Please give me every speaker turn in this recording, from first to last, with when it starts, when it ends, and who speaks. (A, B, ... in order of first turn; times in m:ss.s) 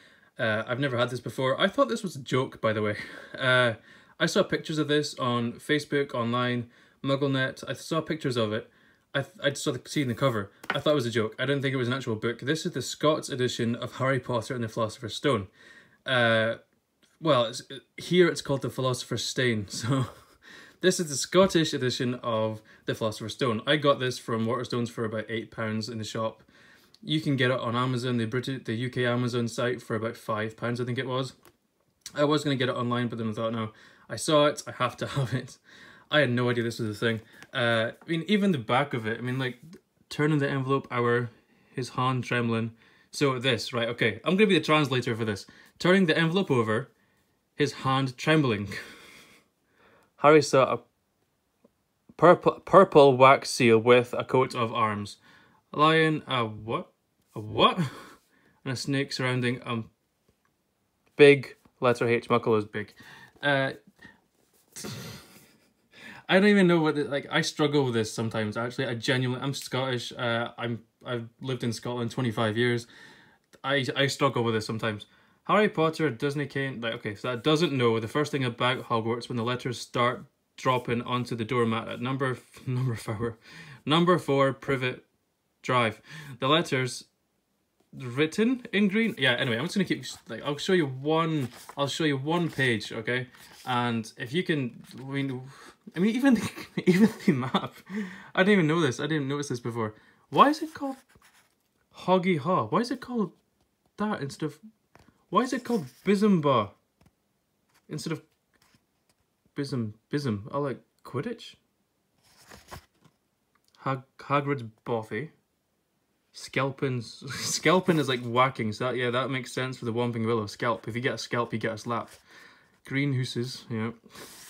0:00.4-0:15.5 A
0:16.0-0:16.6 A
0:17.2-0:20.1 A
0:20.8-0:26.4 A
0:27.0-0:31.3 A
0:32.2-0:46.9 A
0:47.6-0:48.8 A
0:50.2-0:50.8 A
0:52.2-0:55.2 A
0:55.7-0:59.9 A
1:01.2-1:03.8 A
1:04.8-1:05.2 A
1:06.3-1:12.9 A
1:13.6-1:25.0 A
1:25.6-1:27.1 A
1:27.9-1:41.0 A
1:41.9-1:43.4 A
1:44.0-1:44.6 A
1:45.3-1:46.7 A
1:47.9-1:48.2 A
1:49.5-1:51.6 A
1:53.8-1:55.3 A
1:56.3-2:02.2 A
2:02.8-2:04.0 A